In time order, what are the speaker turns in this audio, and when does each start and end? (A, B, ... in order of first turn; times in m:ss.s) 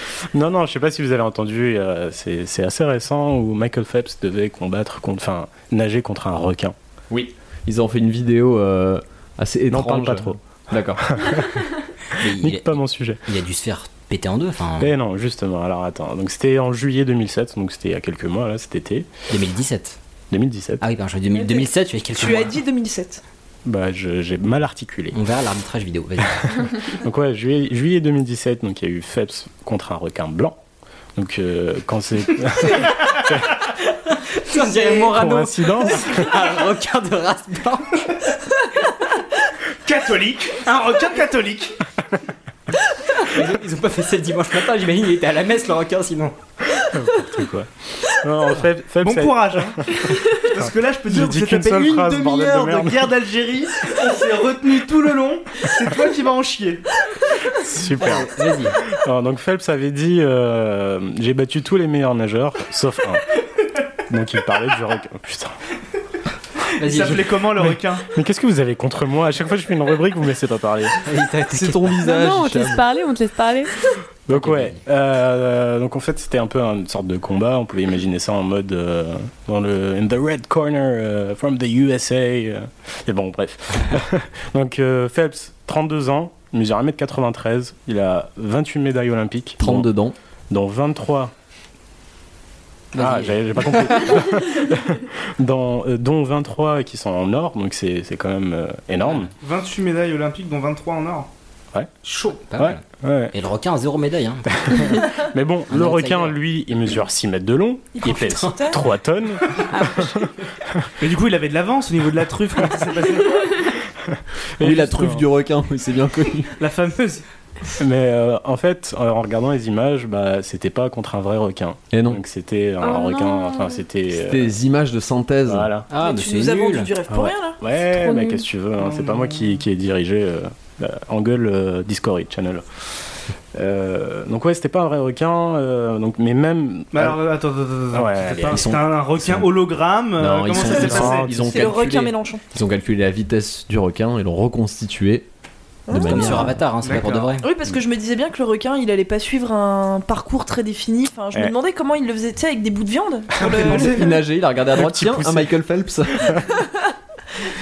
0:00.3-0:06.7 A
0:07.1-0:11.4 B
0:09.7-0:11.5 A
0:12.2-0:14.9 C
0:12.2-0:13.2 A
0:14.8-0:19.1 A
0:19.3-0:20.0 C
0:20.3-0:20.8 A
0:20.8-0:22.6 C
0:21.3-0:23.2 D
0:23.6-0:25.2 A
0:25.1-0:26.6 C
0:26.3-0:30.6 A
0:31.2-0:33.5 A
0:34.4-0:38.2 C
0:34.9-0:36.3 A
0:39.8-0:41.8 E
0:43.2-0:46.3 C
0:46.8-0:50.0 A
0:49.0-0:56.8 E
0:50.6-0:53.1 A
0:57.6-0:58.3 A
0:58.0-0:58.8 C
0:58.9-1:03.2 A
1:04.1-1:05.6 A
1:06.8-1:08.1 E
1:06.8-1:07.4 C
1:08.1-1:11.0 A
1:11.0-1:12.0 C
1:11.5-1:12.8 B
1:12.0-1:13.7 F
1:14.3-1:29.9 A
1:14.3-1:14.8 C
1:29.6-1:30.1 B
1:30.5-1:31.3 A
1:32.9-1:34.2 C
1:32.9-1:39.3 A
1:39.4-1:41.3 E
1:42.0-1:45.1 C
1:42.6-1:43.3 A
1:44.6-1:50.9 A
1:45.7-1:46.4 C
1:47.9-1:48.8 D
1:48.1-1:48.5 C
1:49.8-1:50.2 F
1:51.0-1:53.5 E
1:54.1-1:55.3 A
1:54.6-1:56.5 B
1:56.6-1:57.2 E
1:57.8-2:04.5 A
2:01.9-2:02.2 B
2:02.8-2:03.8 F
2:04.1-2:05.7 B
2:05.4-2:05.9 A
2:05.9-2:06.9 C
2:06.0-2:07.6 D
2:07.1-2:12.6 A
2:08.0-2:08.4 F
2:08.8-2:09.6 E
2:13.5-2:17.2 A
2:16.9-2:21.4 E
2:17.9-2:18.7 A
2:18.5-2:19.5 B
2:20.2-2:25.3 B
2:20.6-2:21.7 A
2:21.5-2:22.4 D
2:25.9-2:26.5 D
2:25.9-2:26.6 B
2:26.0-2:27.5 C
2:26.8-2:27.3 E
2:27.4-2:34.1 D
2:33.4-2:34.2 E
2:33.6-2:36.4 B
2:34.7-2:35.5 A